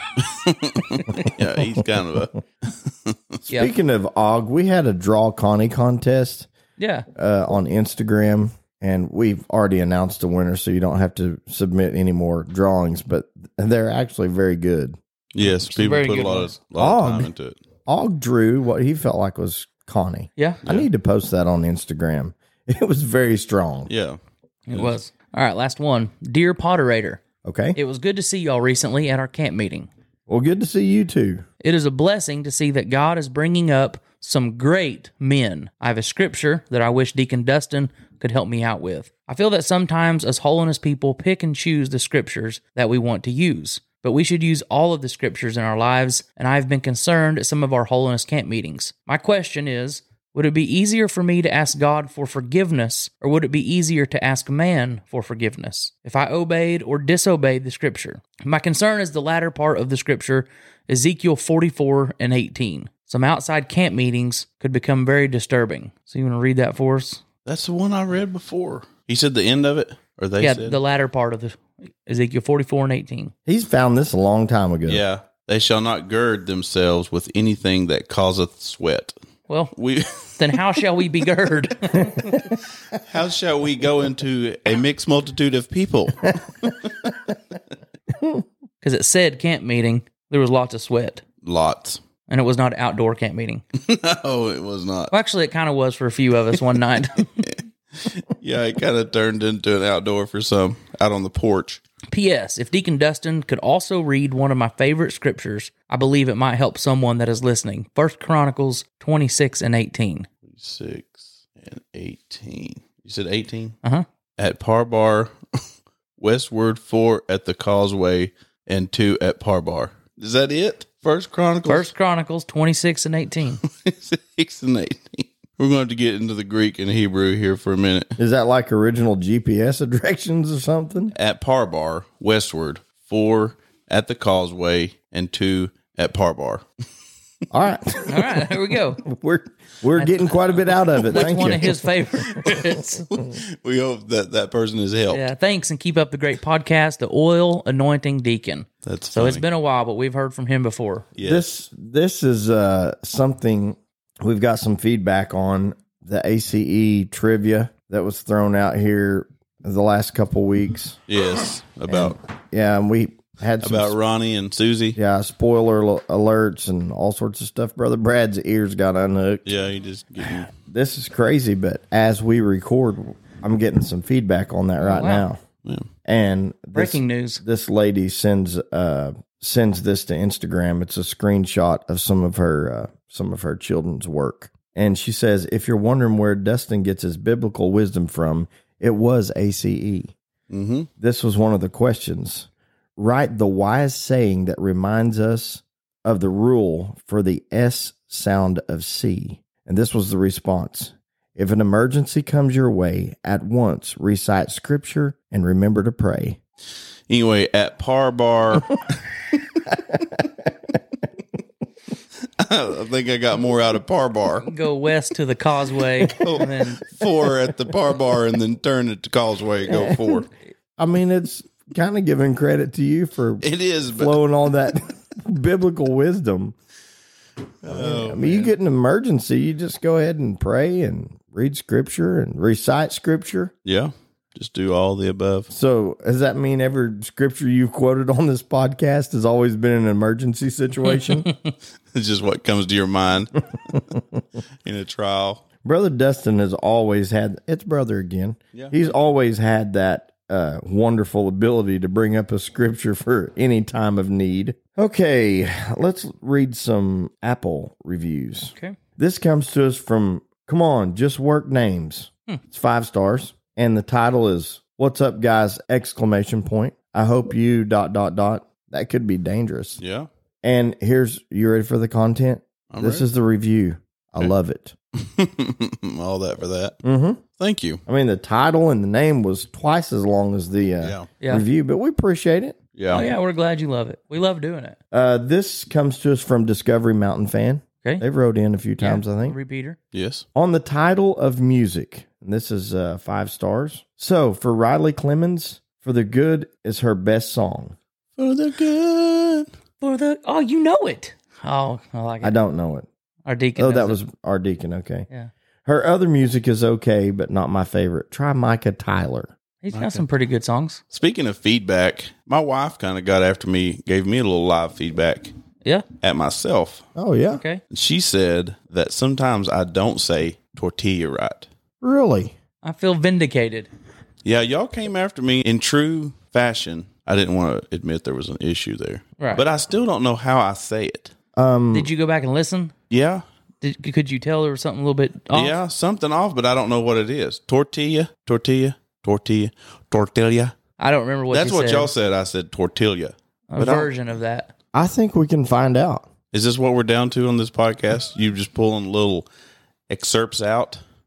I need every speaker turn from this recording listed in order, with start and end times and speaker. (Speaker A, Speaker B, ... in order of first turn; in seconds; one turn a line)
Speaker A: 0.2-3.2
Speaker B: 3.5-6.5
Speaker C: 6.8-7.0
Speaker B: 7.1-15.0
Speaker A: 15.3-17.6
Speaker C: 15.6-16.5
Speaker B: 16.8-17.3
Speaker B: 17.9-23.9
Speaker A: 23.9-24.2
Speaker C: 24.7-27.2
Speaker B: 27.4-27.8
Speaker C: 27.7-29.9
Speaker B: 30.3-31.4
Speaker C: 31.6-67.2
Speaker A: 67.5-70.8
Speaker C: 70.4-73.3
Speaker B: 73.5-75.0
Speaker A: 74.9-79.1
Speaker A: 79.7-80.4
Speaker C: 80.4-82.5
Speaker A: 82.9-86.9
Speaker C: 88.8-91.2
Speaker A: 91.4-92.0
Speaker C: 92.3-93.6
Speaker A: 93.7-95.1
Speaker C: 95.1-97.5
Speaker A: 97.4-101.8
Speaker C: 102.1-110.3
Speaker A: 110.4-113.8
Speaker A: 114.4-115.3
Speaker A: 116.2-121.9
Speaker C: 121.7-123.6
Speaker A: 123.7-128.2
Speaker B: 128.2-131.1
Speaker A: 131.1-136.6
Speaker B: 137.5-141.8
Speaker C: 138.1-139.0
Speaker C: 140.0-143.1
Speaker A: 143.1-145.2
Speaker C: 145.1-151.1
Speaker A: 148.8-149.4
Speaker A: 151.2-151.4
Speaker B: 151.2-161.0
Speaker A: 161.1-162.2
Speaker B: 161.9-163.9
Speaker A: 163.6-165.0
Speaker B: 164.9-169.5
Speaker A: 169.4-170.5
Speaker B: 170.4-175.4
Speaker C: 174.8-175.3
Speaker B: 176.0-190.1
Speaker C: 176.7-177.4
Speaker A: 190.5-190.9
Speaker B: 191.0-206.4
Speaker A: 207.1-208.9
Speaker A: 212.4-214.5
Speaker C: 214.4-216.8
Speaker A: 216.1-220.3
Speaker B: 219.7-220.0
Speaker B: 220.8-226.5
Speaker A: 223.4-224.1
Speaker A: 227.6-228.5
Speaker B: 227.6-233.5
Speaker A: 233.6-235.5
Speaker B: 235.5-241.3
Speaker A: 241.9-243.8
Speaker A: 244.6-245.4
Speaker B: 245.6-269.8
Speaker A: 269.8-270.1
Speaker B: 270.4-274.7
Speaker A: 272.7-273.1
Speaker A: 274.9-276.8
Speaker B: 276.8-277.2
Speaker A: 277.4-277.8
Speaker B: 277.9-282.6
Speaker A: 280.8-281.1
Speaker C: 281.2-281.4
Speaker A: 282.8-283.1
Speaker C: 282.9-284.8
Speaker B: 284.9-289.4
Speaker C: 288.8-289.8
Speaker A: 289.9-290.2
Speaker B: 290.3-297.8
Speaker A: 298.2-299.5
Speaker C: 299.8-302.3
Speaker B: 302.2-302.9
Speaker C: 303.2-304.0
Speaker B: 303.6-305.1
Speaker B: 305.6-309.3
Speaker C: 309.6-310.8
Speaker A: 309.7-310.0
Speaker A: 310.9-315.3
Speaker A: 316.0-316.9
Speaker B: 316.9-317.4
Speaker C: 317.3-317.6
Speaker A: 317.7-321.5
Speaker B: 321.8-322.3
Speaker C: 322.6-323.7
Speaker A: 324.2-331.1
Speaker B: 331.4-331.9
Speaker C: 331.7-332.7
Speaker A: 332.9-333.2
Speaker C: 333.6-335.5
Speaker A: 335.3-340.5
Speaker C: 340.8-341.9
Speaker A: 341.3-343.9
Speaker C: 343.5-344.5
Speaker B: 344.7-346.1
Speaker A: 346.3-349.3
Speaker A: 349.9-350.8